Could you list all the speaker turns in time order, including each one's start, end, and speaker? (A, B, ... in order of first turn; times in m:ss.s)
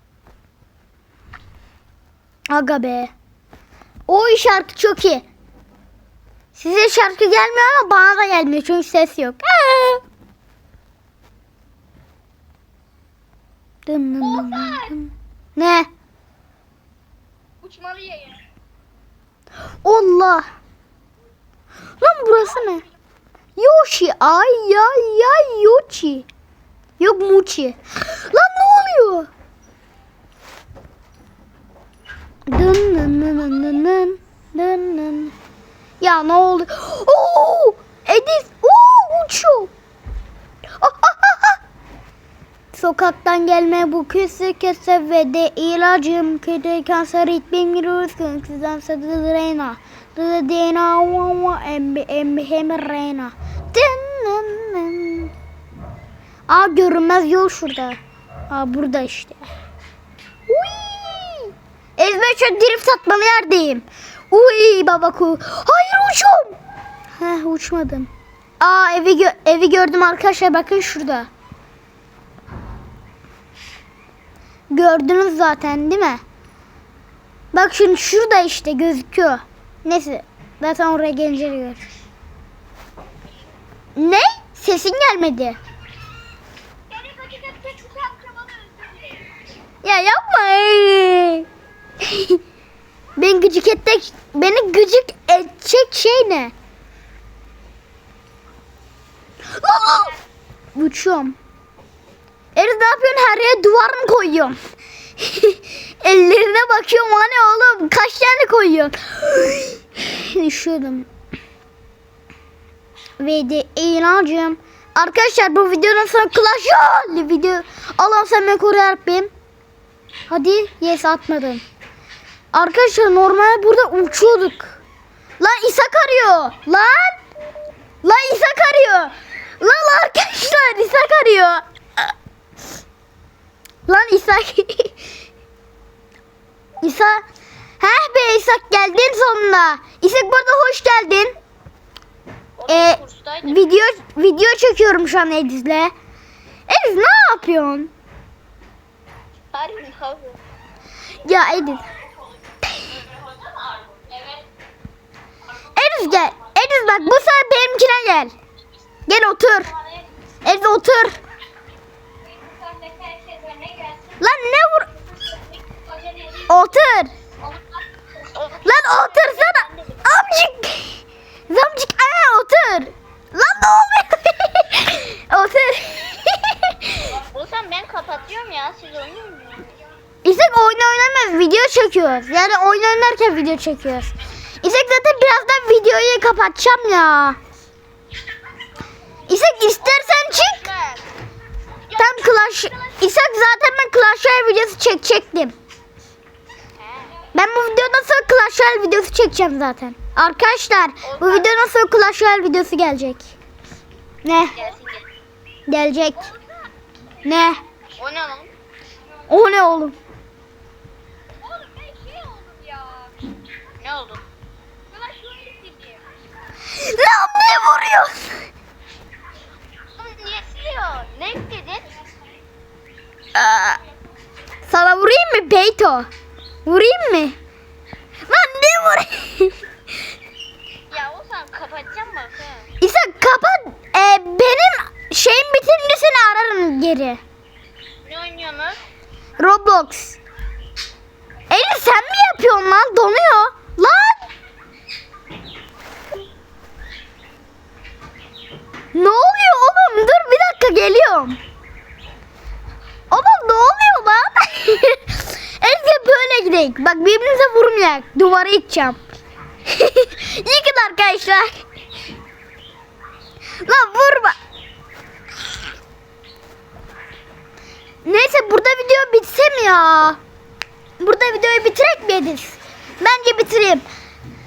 0:02.5-0:03.1 A
0:04.1-0:05.2 A
0:06.5-0:10.0 A
0:13.9-0:15.9 A
0:14.4-0:14.9 B
0:17.6-0:18.4 B
0:19.8-0:20.5 A
0:22.0-0:22.8 A
0:23.6-0:26.3 A
0:27.0-0:29.3 A
0:32.5-0:35.4 A
0:36.0-0:39.7 A
0:40.8-0:41.6 A
0:42.7-0:55.3 A
0:56.5-0:58.0 A
0:58.5-0:59.5 A
1:00.5-1:06.6 A
1:07.2-1:11.3 A
1:14.7-1:16.2 A
1:17.5-1:21.8 A
1:24.0-1:25.6 A
1:26.9-1:29.3 B
1:29.8-1:31.5 A
1:32.0-1:32.4 A
1:33.2-1:36.5 A
1:39.5-1:40.2 A
1:40.8-1:41.4 A
1:42.6-1:44.6 A
1:45.2-1:51.1 A
1:53.2-1:59.3 A
2:00.3-2:01.6 A
2:02.5-2:04.8 A
2:05.4-2:07.2 A
2:08.0-2:12.0 A
2:13.9-2:15.0 A
2:16.8-2:17.2 A
2:17.8-2:21.4 A
2:22.6-2:23.6 B
2:22.7-2:25.9 A
2:26.7-2:27.9 A
2:29.5-2:30.4 B
2:31.2-2:31.8 A
2:33.5-2:34.2 B
2:35.7-2:38.3 A
2:39.1-2:39.7 A
2:40.4-2:41.2 A
2:42.6-2:44.0 B
2:44.2-2:44.9 A
2:46.5-2:47.1 A
2:48.2-2:50.0 B
2:48.6-2:57.1 A
2:57.1-2:59.7 B
3:00.2-3:07.4 A
3:09.3-3:10.6 A
3:09.8-3:11.1 B
3:11.9-3:15.6 A
3:16.8-3:17.2 B
3:17.3-3:23.3 A
3:21.0-3:21.5 B
3:24.2-3:24.7 A
3:24.6-3:25.1 B
3:25.7-3:26.3 A
3:27.2-3:27.6 A
3:28.0-3:28.5 B
3:29.3-3:30.0 A
3:31.4-3:33.1 B
3:33.8-3:34.2 B
3:34.9-3:36.0 B
3:36.7-3:38.4 A
3:40.0-3:42.0 B
3:43.3-3:43.8 A
3:44.7-3:46.1 A
3:46.6-3:47.4 A
3:48.3-3:49.6 A
3:50.9-3:52.7 B
3:52.8-3:57.2 A
3:58.0-3:58.8 B
3:59.4-4:00.2 A
4:01.5-4:04.3 A
4:08.9-4:11.4 A
4:13.1-4:19.0 A
4:19.7-4:21.6 A
4:23.6-4:24.4 A
4:28.0-4:30.2 A
4:31.0-4:33.8 A